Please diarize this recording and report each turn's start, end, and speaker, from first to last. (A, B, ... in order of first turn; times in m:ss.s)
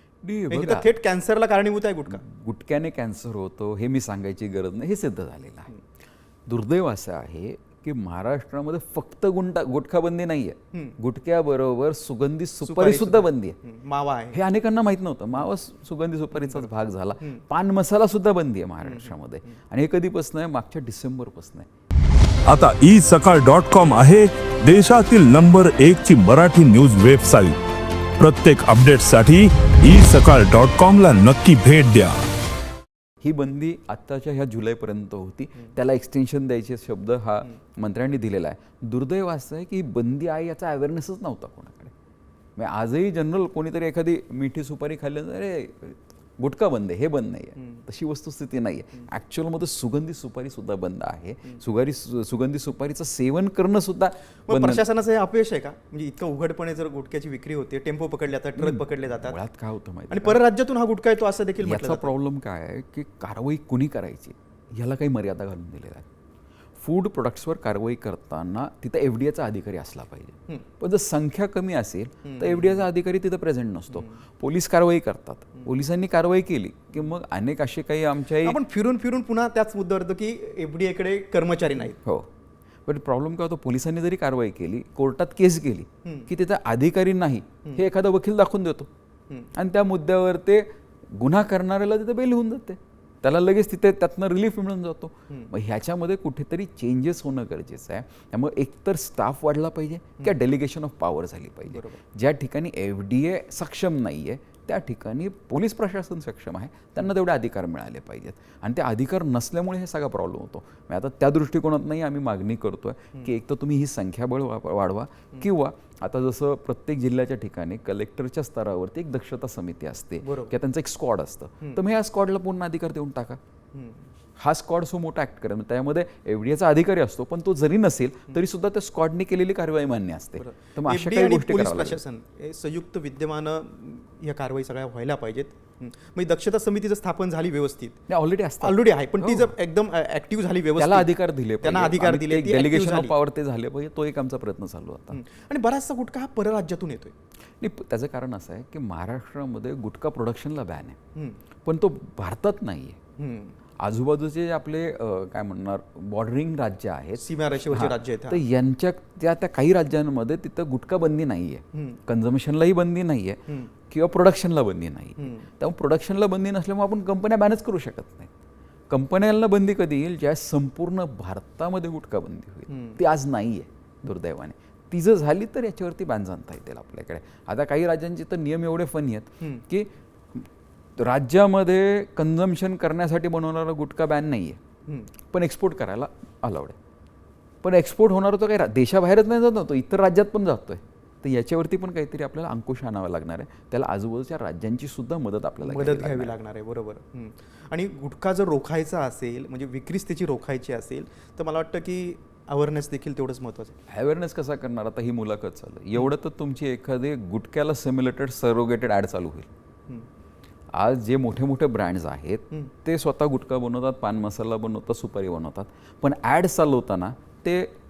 0:00.2-0:00.9 A
0:00.5-0:02.2 B
0:02.1-0:05.7 A
0:06.5-0:13.6 A
0:12.6-0:14.4 B
0:14.3-0:21.7 A
0:16.3-0:16.6 B
0:18.8-0:19.2 B
0:22.5-0:27.6 C
0:28.2-0:32.1 C
0:33.2-0:41.9 A
0:42.6-0:54.8 A
0:54.5-0:59.4 B
0:58.6-1:00.4 A
1:00.1-1:02.1 B
1:01.6-1:06.0 A
1:06.8-1:18.6 A
1:12.2-1:12.9 B
1:13.9-1:14.2 B
1:18.4-1:22.0 B
1:22.0-1:22.3 A
1:22.8-1:28.9 A
1:26.0-1:26.3 B
1:29.5-2:03.4 A
1:41.7-1:42.0 B
2:00.2-2:00.5 B
2:03.7-2:04.1 B
2:04.4-2:12.0 A
2:10.4-2:18.0 B
2:18.1-2:19.5 A
2:18.6-2:23.1 B
2:20.8-2:25.2 A
2:25.1-2:27.1 B
2:27.6-2:31.0 A
2:31.6-2:33.0 A
2:33.2-2:33.5 B
2:33.8-2:48.3 A
2:37.2-2:38.4 B
2:45.2-2:45.5 B
2:48.9-3:04.6 A
2:52.7-2:53.0 B
3:05.3-3:06.8 A
3:07.6-3:16.3 A
3:15.6-3:23.7 B
3:23.9-3:29.5 A
3:30.7-3:37.7 A